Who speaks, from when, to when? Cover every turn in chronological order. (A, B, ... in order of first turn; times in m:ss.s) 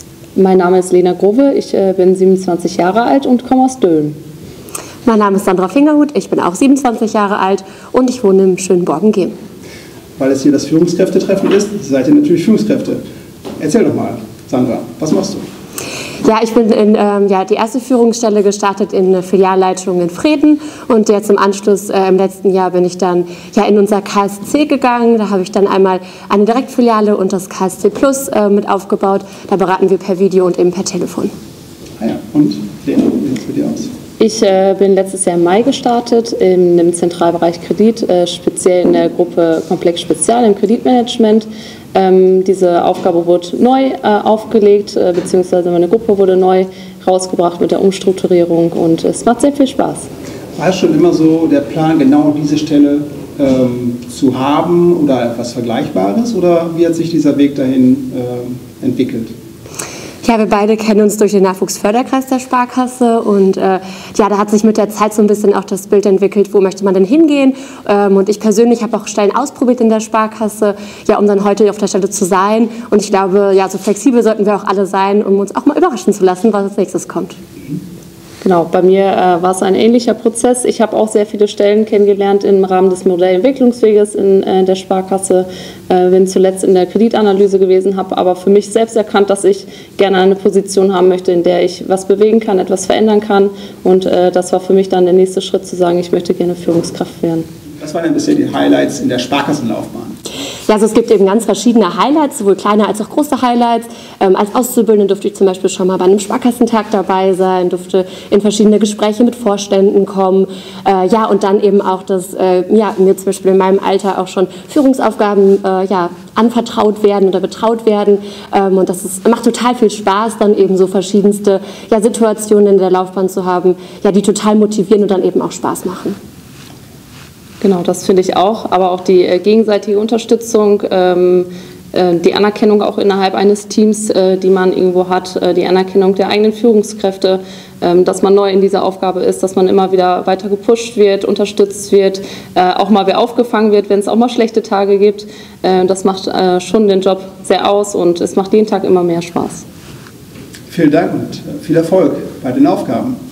0:00.4-0:04.2 A
0:05.1-0:09.3 B
0:10.2-0:13.0 C
0:13.6-0:15.4 C
0:16.2-0:31.3 B
0:32.0-0:33.9 C
0:34.2-0:50.1 A
0:50.6-0:59.3 C
1:00.2-1:17.4 B
1:18.4-1:37.5 A
1:37.8-1:40.2 C
1:40.7-2:06.2 B
2:07.6-2:29.6 A
2:30.7-2:33.2 C